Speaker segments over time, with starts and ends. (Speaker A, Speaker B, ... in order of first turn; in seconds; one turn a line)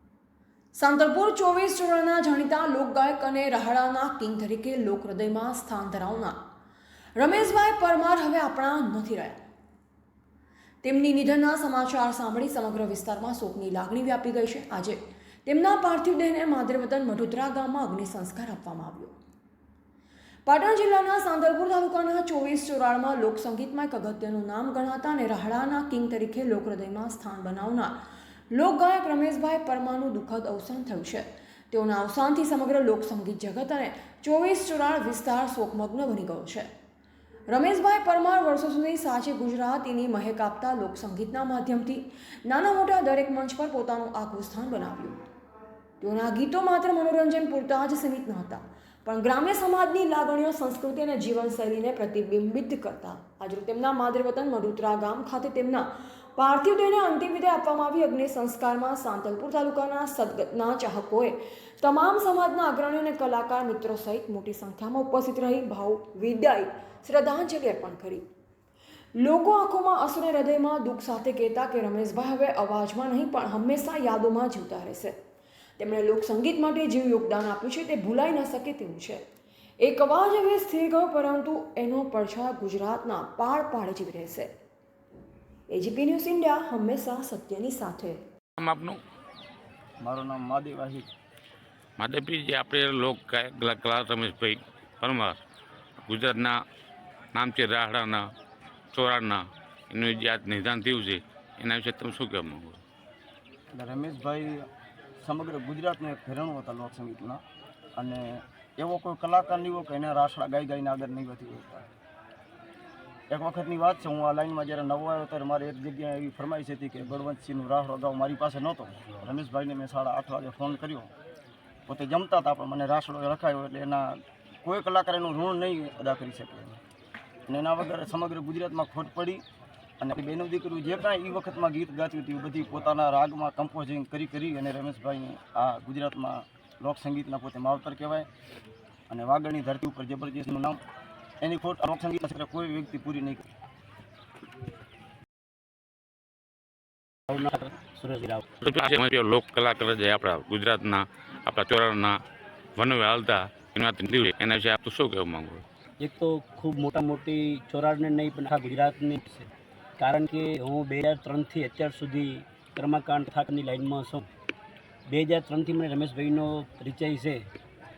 Speaker A: 0.7-6.4
Speaker A: 7.2-9.4
Speaker A: 10.8-19.2
Speaker A: 20.4-28.0
Speaker A: 28.5-36.7
Speaker A: 37.5-45.2
Speaker A: 46.0-68.2
Speaker A: 69.2-75.1
Speaker A: 75.8-79.2
Speaker A: 79.8-84.5
Speaker A: 85.7-88.2
Speaker B: 88.6-89.0
Speaker C: 90.0-91.1
Speaker B: 92.0-95.4
Speaker B: 96.1-96.6
Speaker B: 97.3-98.3
Speaker B: 98.9-102.8
Speaker C: 103.7-104.7
Speaker C: 105.2-107.4
Speaker C: 108.0-111.9
Speaker C: 113.3-121.1
Speaker C: 121.9-126.8
Speaker C: 127.5-129.4
Speaker C: 130.0-138.3
Speaker C: 139.1-140.8
Speaker C: 141.4-143.5
Speaker D: 147.3-148.6
Speaker B: 148.6-152.2
Speaker B: 152.8-155.6
Speaker D: 156.0-164.3
Speaker D: 165.1-167.4